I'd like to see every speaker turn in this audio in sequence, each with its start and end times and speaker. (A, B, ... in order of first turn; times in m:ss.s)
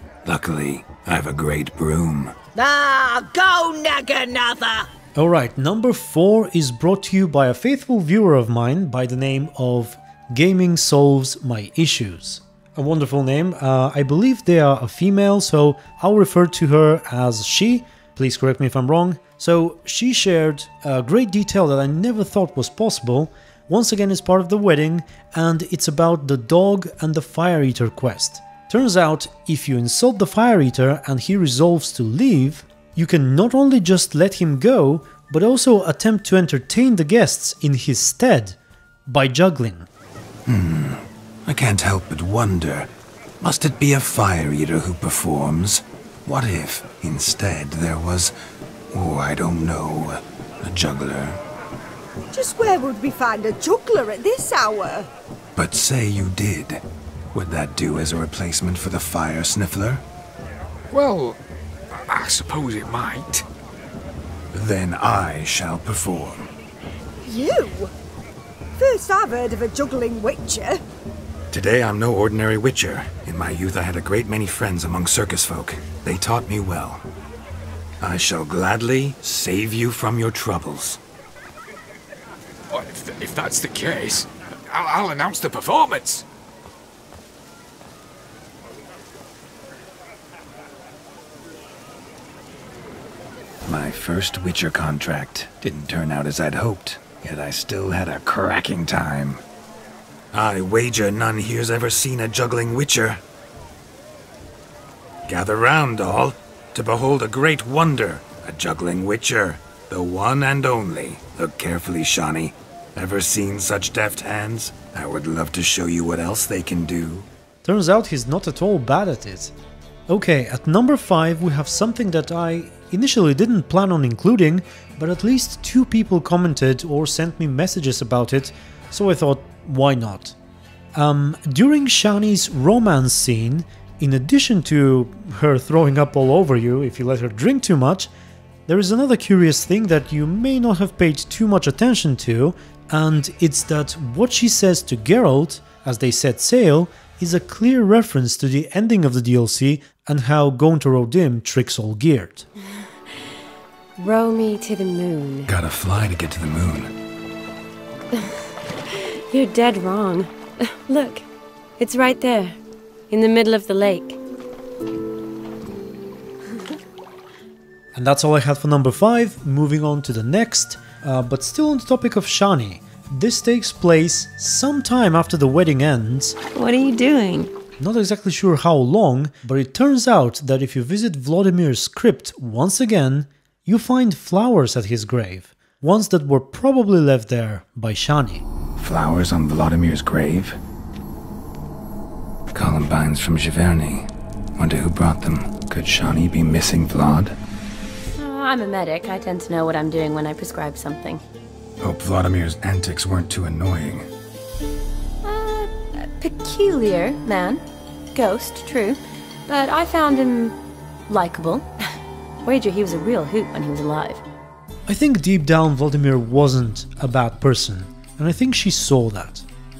0:00.2-0:02.4 A
0:02.6-0:04.8 B
0:05.2-0:39.9 C
0:40.4-0:42.9 A
0:43.4-0:48.3 A
0:48.9-0:51.4 A
0:52.3-0:55.1 B
0:55.6-1:00.0 A
1:00.9-1:01.4 D
1:02.0-1:03.4 D
1:04.5-1:06.5 A
1:07.2-1:07.9 B
1:08.8-1:10.8 B
1:11.5-1:17.0 A
1:18.0-1:21.0 A
1:22.7-1:26.2 D
1:33.6-1:39.4 A
1:40.3-1:43.2 A
1:45.3-1:57.3 A
1:57.6-1:59.5 C
2:00.1-2:10.4 C
2:10.9-2:18.1 C
2:18.7-2:32.5 C
2:34.0-2:35.5 E
2:35.4-2:36.9 A
2:38.9-2:41.2 E
2:41.8-2:42.6 E
2:43.1-2:44.2 E
2:47.9-2:56.4 C
2:56.5-2:57.5 E
2:57.8-3:08.4 C
3:08.8-3:10.6 A
3:12.5-3:17.4 A
3:18.2-3:21.2 E
3:21.8-3:24.1 A
3:25.2-3:27.6 E
3:28.1-3:30.6 E
3:31.1-3:31.7 E
3:32.4-3:34.2 E
3:34.9-3:39.4 C